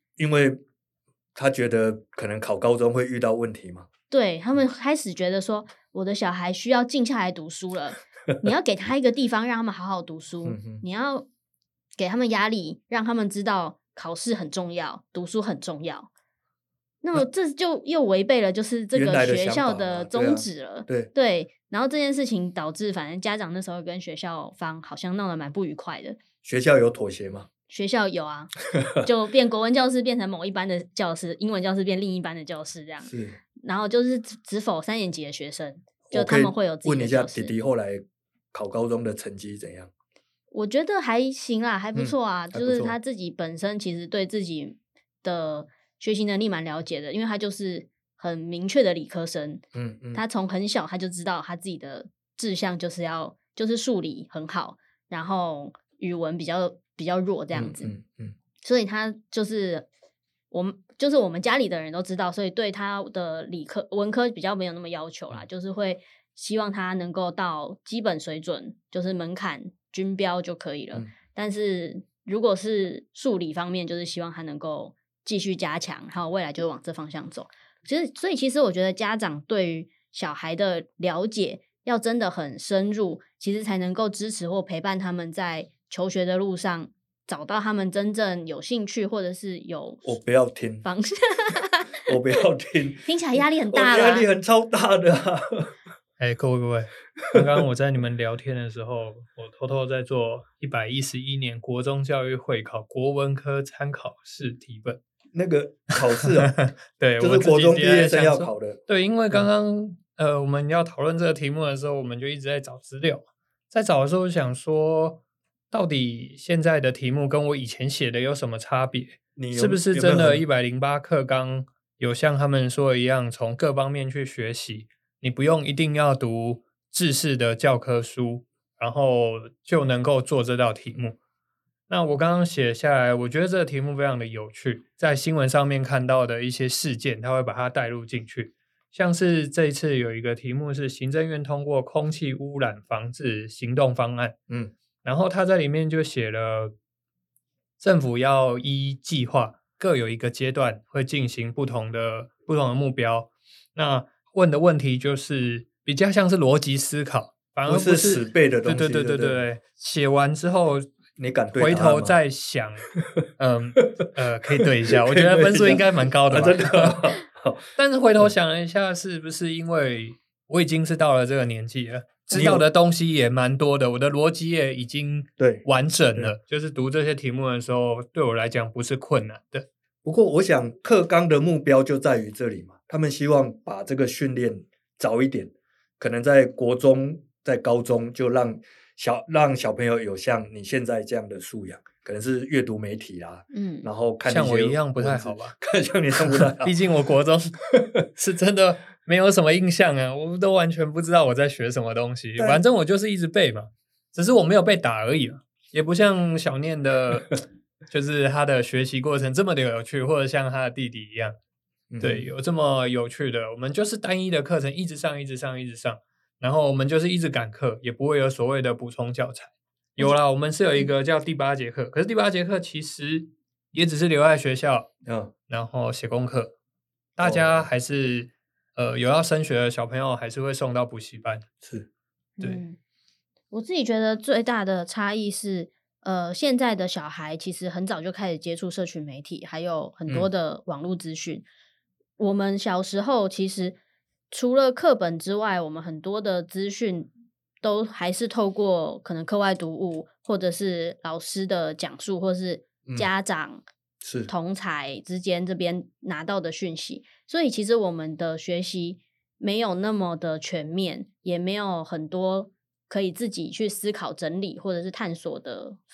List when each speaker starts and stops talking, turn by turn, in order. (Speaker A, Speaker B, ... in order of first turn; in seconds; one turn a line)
Speaker A: 0.2-0.6
Speaker A: 1.3-3.9
Speaker B: 4.1-11.3
Speaker A: 10.4-10.8
Speaker B: 12.0-16.1
Speaker B: 17.0-26.2
Speaker A: 18.9-21.1
Speaker A: 26.4-27.5
Speaker B: 27.7-37.5
Speaker A: 28.7-29.0
Speaker A: 33.1-33.4
Speaker A: 36.1-39.9
Speaker B: 40.5-49.6
Speaker A: 41.9-43.0
Speaker A: 49.7-50.2
Speaker B: 50.1-57.9
Speaker A: 57.5-58.3
Speaker B: 58.6-59.9
Speaker B: 60.5-90.1
Speaker A: 90.0-90.9
Speaker B: 90.8-92.0
Speaker A: 92.0-95.7
Speaker B: 93.0-94.3
Speaker C: 96.2-105.0
Speaker A: 105.3-106.6
Speaker C: 106.2-131.2
Speaker A: 107.2-108.8
Speaker A: 119.3-120.4
Speaker C: 131.9-144.3
Speaker C: 145.0-146.7
Speaker C: 147.8-160.8
Speaker A: 157.7-159.4
Speaker A: 161.2-162.2
Speaker C: 161.6-167.1
Speaker A: 162.9-163.2
Speaker A: 164.0-167.7
Speaker C: 167.8-179.7
Speaker A: 172.3-172.7
Speaker A: 175.4-176.3
Speaker A: 180.0-196.7
Speaker B: 193.5-193.9
Speaker C: 194.2-195.6
Speaker C: 196.3-211.3
Speaker A: 197.8-198.1
Speaker A: 202.4-202.6
Speaker A: 211.9-212.3
Speaker C: 212.0-224.9
Speaker A: 225.1-225.3
Speaker C: 225.5-226.5
Speaker C: 227.2-231.4
Speaker A: 227.2-227.7
Speaker A: 231.6-231.9
Speaker B: 232.4-232.8
Speaker B: 233.5-241.4
Speaker B: 242.2-243.8
Speaker B: 244.3-247.1
Speaker B: 247.6-253.6
Speaker A: 254.0-254.3
Speaker B: 254.3-265.8